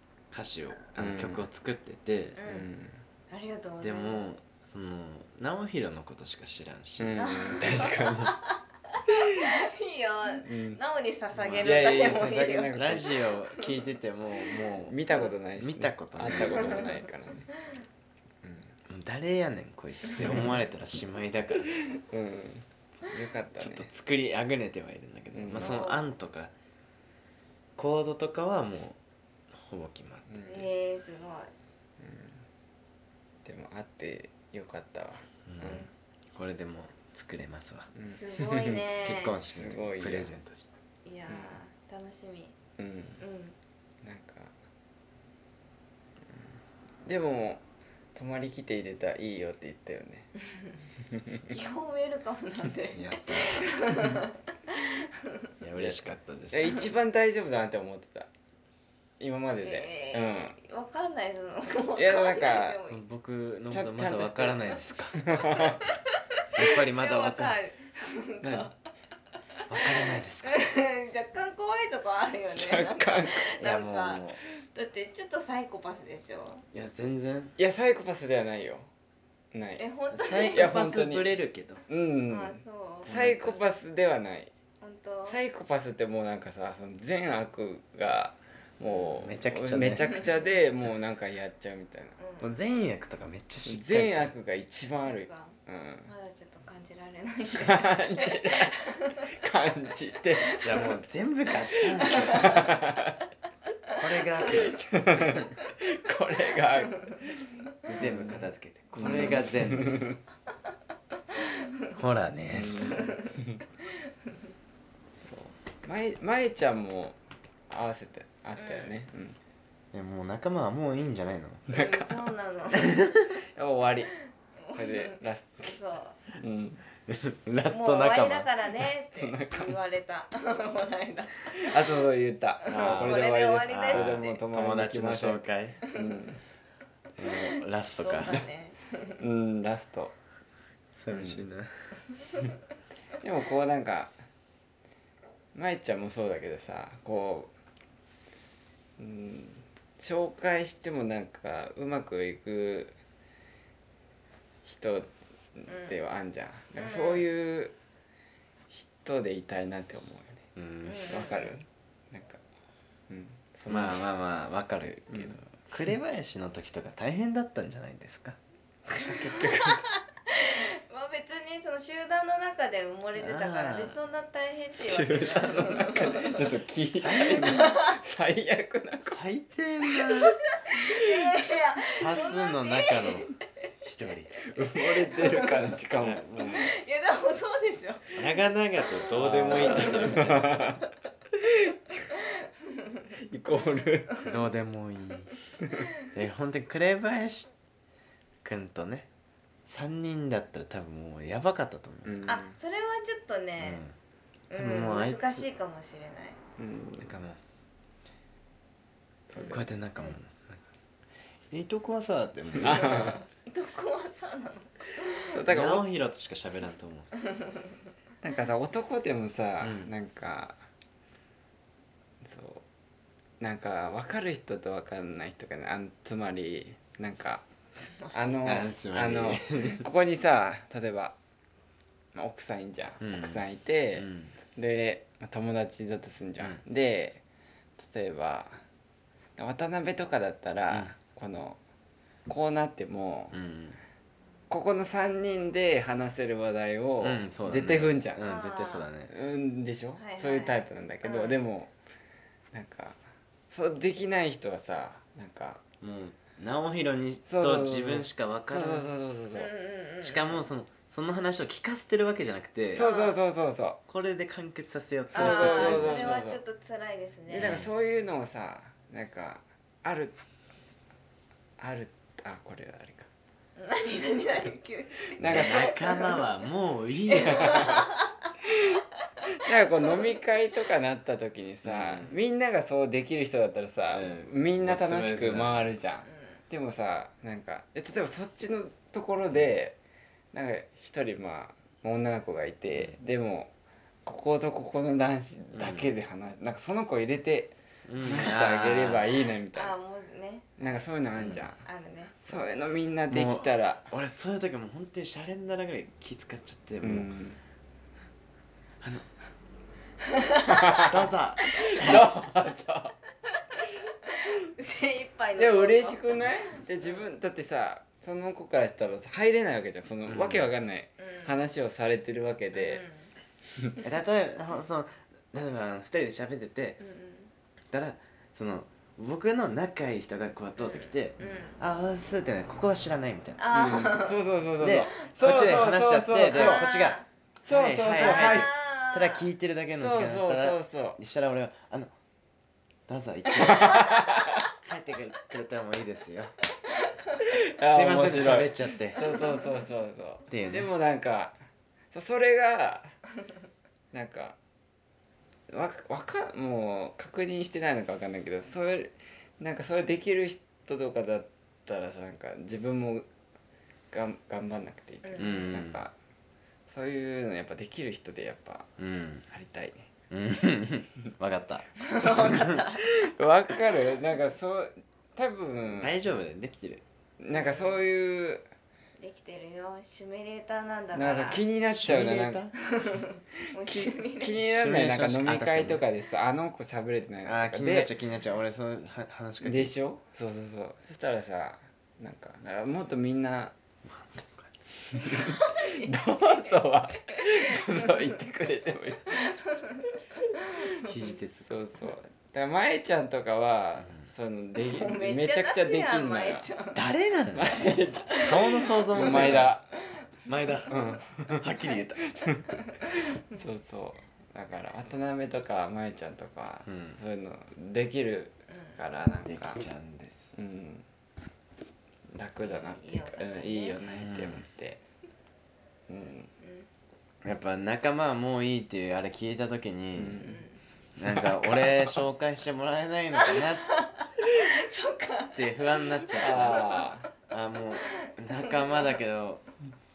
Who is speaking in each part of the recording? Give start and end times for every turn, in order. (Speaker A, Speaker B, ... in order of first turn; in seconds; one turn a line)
Speaker A: 0.3-2.4
Speaker B: 1.0-1.5
Speaker C: 2.4-2.7
Speaker B: 2.5-3.0
Speaker C: 3.3-4.3
Speaker A: 3.8-8.3
Speaker B: 7.0-8.3
Speaker C: 7.2-13.7
Speaker B: 10.4-10.8
Speaker A: 11.4-15.0
Speaker B: 11.5-13.2
Speaker B: 14.9-17.5
Speaker A: 15.6-16.9
Speaker C: 16.2-17.0
Speaker B: 18.4-18.7
Speaker A: 18.9-21.8
Speaker B: 20.2-20.5
Speaker B: 22.1-23.9
Speaker A: 23.6-26.5
Speaker B: 25.3-25.8
Speaker C: 25.6-26.1
Speaker A: 27.8-29.0
Speaker A: 29.5-30.6
Speaker B: 30.3-30.7
Speaker C: 30.5-31.5
Speaker B: 32.0-32.5
Speaker B: 33.5-35.9
Speaker A: 35.5-37.9
Speaker B: 37.9-38.9
Speaker C: 38.1-39.4
Speaker A: 39.0-40.7
Speaker B: 39.5-40.3
Speaker C: 41.0-42.5
Speaker B: 41.3-41.6
Speaker B: 42.8-43.2
Speaker C: 43.2-43.5
Speaker B: 44.0-44.5
Speaker B: 47.0-47.6
Speaker B: 48.1-50.3
Speaker B: 51.1-51.4
Speaker C: 51.5-55.0
Speaker A: 52.9-53.8
Speaker A: 55.6-56.8
Speaker B: 55.8-58.3
Speaker B: 59.2-60.6
Speaker C: 59.6-63.0
Speaker B: 61.9-62.8
Speaker A: 62.9-65.4
Speaker B: 63.7-65.8
Speaker C: 65.3-66.0
Speaker A: 66.5-67.6
Speaker C: 66.6-68.8
Speaker B: 68.4-68.7
Speaker A: 69.7-70.7
Speaker C: 70.4-76.7
Speaker B: 72.5-73.5
Speaker A: 73.6-74.4
Speaker A: 76.7-77.5
Speaker B: 77.6-78.9
Speaker B: 79.5-79.9
Speaker C: 79.8-80.7
Speaker A: 80.1-81.8
Speaker B: 80.5-81.4
Speaker B: 81.9-84.5
Speaker C: 82.3-83.1
Speaker A: 83.1-83.6
Speaker C: 84.8-85.4
Speaker B: 85.3-92.2
Speaker A: 88.9-90.1
Speaker C: 92.2-92.5
Speaker A: 92.4-94.3
Speaker B: 93.7-96.1
Speaker C: 95.0-99.2
Speaker B: 97.6-100.9
Speaker A: 100.6-102.8
Speaker B: 102.0-103.2
Speaker C: 102.2-102.6
Speaker A: 103.9-105.5
Speaker B: 104.5-108.5
Speaker A: 107.9-110.1
Speaker B: 109.0-110.1
Speaker C: 109.0-109.4
Speaker A: 111.9-113.0
Speaker B: 112.5-113.6
Speaker C: 112.8-113.4
Speaker B: 115.2-119.4
Speaker C: 118.6-118.9
Speaker A: 119.9-121.7
Speaker B: 121.7-122.3
Speaker C: 121.7-123.2
Speaker B: 123.4-124.2
Speaker B: 124.7-125.7
Speaker C: 124.7-126.2
Speaker B: 126.4-126.8
Speaker A: 127.1-128.5
Speaker C: 127.7-131.7
Speaker B: 129.0-129.8
Speaker B: 131.6-136.4
Speaker C: 132.7-134.4
Speaker A: 132.7-135.8
Speaker A: 137.2-138.5
Speaker C: 138.0-139.2
Speaker B: 139.2-140.1
Speaker A: 141.0-141.7
Speaker B: 141.1-141.4
Speaker B: 143.2-144.2
Speaker B: 145.5-147.5
Speaker B: 149.0-152.9
Speaker B: 154.6-157.8
Speaker C: 155.7-156.0
Speaker C: 156.8-157.3
Speaker B: 158.7-160.5
Speaker A: 160.6-161.2
Speaker C: 160.8-161.6
Speaker B: 161.1-162.4
Speaker B: 163.1-164.0
Speaker A: 163.7-168.4
Speaker B: 165.1-165.4
Speaker C: 168.9-176.4
Speaker B: 169.0-169.9
Speaker A: 173.2-174.0
Speaker B: 174.8-179.2
Speaker A: 176.9-177.8
Speaker C: 177.4-177.9
Speaker A: 179.1-180.4
Speaker C: 180.6-183.2
Speaker B: 180.9-181.3
Speaker A: 181.9-184.6
Speaker B: 184.5-186.6
Speaker C: 184.8-185.8
Speaker A: 186.0-186.7
Speaker C: 186.4-188.1
Speaker A: 188.1-190.7
Speaker C: 189.1-190.7
Speaker B: 189.2-190.7
Speaker B: 193.2-194.2
Speaker A: 194.2-195.3
Speaker A: 196.1-197.5
Speaker A: 198.4-199.1
Speaker A: 199.7-202.4
Speaker B: 202.1-202.6
Speaker C: 202.3-203.8
Speaker A: 203.6-203.9
Speaker C: 204.5-206.4
Speaker A: 204.5-205.5
Speaker B: 206.6-207.2
Speaker A: 207.0-207.4
Speaker B: 209.3-209.6
Speaker A: 209.4-210.7
Speaker C: 209.4-210.2
Speaker A: 211.5-213.2
Speaker B: 212.5-213.2
Speaker C: 212.7-215.4
Speaker B: 215.2-215.9
Speaker A: 215.5-217.1
Speaker B: 218.2-220.6
Speaker A: 219.6-219.9
Speaker B: 222.2-222.6
Speaker B: 223.4-227.4
Speaker C: 227.9-228.1
Speaker B: 228.1-231.2
Speaker A: 228.4-229.8
Speaker B: 232.1-237.2
Speaker A: 233.0-234.3
Speaker B: 237.8-238.6
Speaker B: 239.4-241.6
Speaker A: 240.7-240.9
Speaker B: 242.3-243.3
Speaker A: 243.3-243.8
Speaker B: 244.5-248.2
Speaker A: 247.0-249.1
Speaker C: 248.2-248.9
Speaker B: 249.1-251.7
Speaker C: 250.0-251.4
Speaker B: 252.5-253.0
Speaker B: 253.5-255.6
Speaker A: 255.8-258.9
Speaker B: 257.3-259.5
Speaker C: 259.3-260.4
Speaker A: 260.0-262.9
Speaker B: 262.7-263.8
Speaker C: 262.7-263.2
Speaker A: 263.9-266.2
Speaker B: 265.1-266.4
Speaker C: 265.1-267.6
Speaker B: 267.3-270.2
Speaker A: 267.4-267.7
Speaker B: 271.6-273.1
Speaker C: 273.6-276.3
Speaker B: 275.2-276.2
Speaker A: 275.2-277.9
Speaker B: 277.2-277.8
Speaker C: 277.2-278.1
Speaker B: 279.3-289.8
Speaker A: 281.6-282.2
Speaker A: 283.9-285.7
Speaker C: 286.1-286.4
Speaker B: 290.3-293.5
Speaker B: 294.1-299.8
Speaker A: 295.5-295.9
Speaker A: 297.9-299.2
Speaker C: 299.5-300.6
Speaker B: 300.6-301.6
Speaker A: 301.2-301.4
Speaker C: 301.6-302.5
Speaker B: 302.2-303.9
Speaker A: 303.1-307.1
Speaker B: 306.8-307.4
Speaker A: 308.8-309.1
Speaker C: 310.2-310.9
Speaker B: 310.5-313.0
Speaker A: 310.8-312.1
Speaker C: 311.5-311.9
Speaker C: 313.6-317.1
Speaker B: 315.4-322.8
Speaker A: 320.1-320.5
Speaker C: 321.0-321.4
Speaker C: 322.5-323.1
Speaker A: 323.8-326.8
Speaker C: 326.8-327.3
Speaker A: 327.7-333.9
Speaker C: 330.6-331.6
Speaker C: 333.4-334.3
Speaker B: 333.5-336.7
Speaker A: 334.6-341.9
Speaker C: 336.3-337.1
Speaker B: 337.4-338.5
Speaker C: 337.9-339.2
Speaker B: 339.8-341.0
Speaker A: 342.9-346.3
Speaker B: 343.4-344.4
Speaker B: 347.2-351.4
Speaker A: 347.7-349.2
Speaker A: 350.3-350.7
Speaker B: 351.9-353.0
Speaker B: 353.9-354.4
Speaker B: 355.5-363.1
Speaker B: 363.9-365.9
Speaker C: 365.0-365.6
Speaker A: 365.2-365.8
Speaker B: 366.7-368.7
Speaker A: 368.8-369.3
Speaker B: 369.3-369.9
Speaker A: 370.1-372.6
Speaker C: 371.8-373.1
Speaker B: 372.9-376.0
Speaker A: 375.7-376.8
Speaker B: 377.2-378.5
Speaker C: 377.3-377.8
Speaker C: 379.0-381.5
Speaker B: 380.9-382.4
Speaker A: 381.7-382.5
Speaker C: 382.7-384.4
Speaker B: 383.6-387.9
Speaker A: 384.4-385.8
Speaker A: 387.3-389.7
Speaker B: 389.4-393.6
Speaker A: 393.9-394.5
Speaker B: 394.9-399.2
Speaker C: 395.2-395.9
Speaker C: 397.2-398.0
Speaker C: 399.1-400.0
Speaker A: 400.8-401.6
Speaker B: 401.5-406.5
Speaker A: 403.8-404.1
Speaker C: 404.6-406.9
Speaker A: 406.8-409.6
Speaker B: 407.4-409.7
Speaker C: 407.5-409.6
Speaker A: 410.3-412.1
Speaker B: 410.7-411.5
Speaker B: 412.0-412.4
Speaker C: 412.7-413.0
Speaker B: 413.3-419.6
Speaker A: 416.7-417.0
Speaker C: 418.5-418.8
Speaker A: 419.2-420.4
Speaker B: 420.4-420.9
Speaker B: 422.1-424.8
Speaker C: 422.4-423.8
Speaker A: 423.9-424.5
Speaker B: 425.9-426.3
Speaker C: 426.4-426.7
Speaker A: 427.2-430.3
Speaker B: 430.0-430.5
Speaker C: 430.2-430.6
Speaker A: 431.0-433.8
Speaker B: 431.1-432.0
Speaker C: 433.1-437.0
Speaker A: 435.4-439.4
Speaker B: 436.2-437.1
Speaker C: 438.4-438.9